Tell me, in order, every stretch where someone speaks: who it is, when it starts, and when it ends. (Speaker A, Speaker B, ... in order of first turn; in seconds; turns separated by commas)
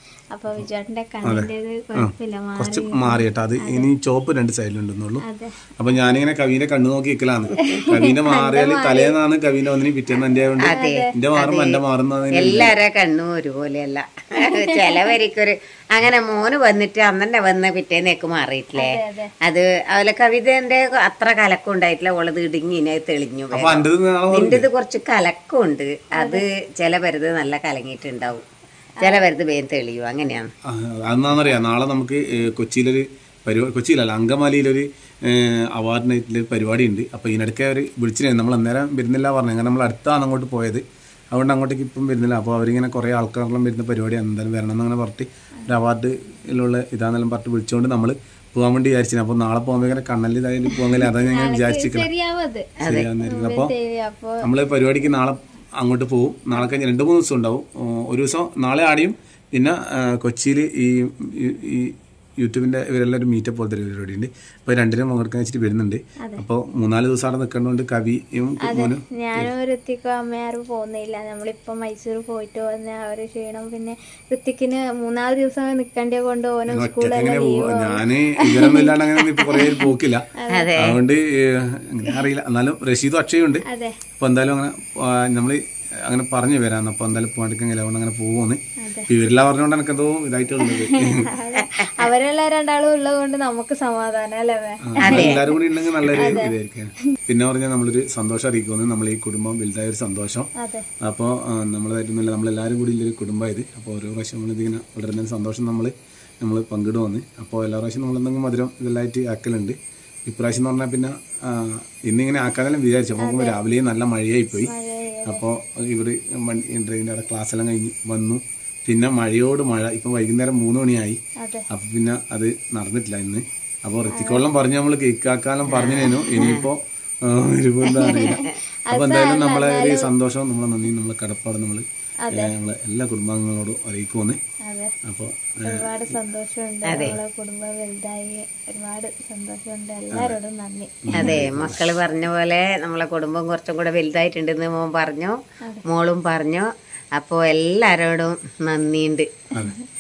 Speaker A: 0.3-3.9, Speaker B: 1.2-5.2, Speaker A: 5.3-5.5, Speaker B: 5.8-12.7, Speaker A: 7.7-9.1, Speaker C: 10.6-28.4, Speaker A: 10.7-11.1, Speaker A: 12.3-12.7, Speaker A: 14.5-15.1, Speaker A: 18.8-19.3, Speaker B: 23.5-24.7, Speaker A: 26.2-26.4, Speaker A: 29.0-29.3, Speaker C: 29.0-30.5, Speaker B: 30.7-52.1, Speaker A: 51.2-52.7, Speaker C: 52.8-53.1, Speaker B: 52.8-53.7, Speaker A: 53.2-54.4, Speaker B: 54.4-69.5, Speaker A: 68.6-79.0, Speaker B: 76.7-80.2, Speaker A: 79.5-79.8, Speaker A: 80.4-80.7, Speaker C: 80.5-81.0, Speaker B: 80.8-83.6, Speaker A: 83.7-84.0, Speaker B: 84.2-91.3, Speaker A: 88.8-89.1, Speaker A: 90.6-95.6, Speaker C: 91.6-92.1, Speaker B: 94.8-100.5, Speaker C: 95.0-95.5, Speaker A: 96.2-96.5, Speaker A: 100.6-100.9, Speaker B: 101.0-114.7, Speaker A: 113.2-113.6, Speaker A: 114.6-115.5, Speaker B: 115.3-121.2, Speaker A: 121.4-121.7, Speaker B: 121.7-134.4, Speaker A: 124.1-124.5, Speaker C: 125.7-126.7, Speaker C: 127.9-128.5, Speaker A: 128.1-130.1, Speaker A: 134.6-134.9, Speaker B: 135.0-136.0, Speaker A: 135.7-141.3, Speaker C: 136.8-137.2, Speaker B: 136.9-137.2, Speaker B: 141.1-141.8, Speaker C: 141.1-149.3, Speaker A: 149.6-149.8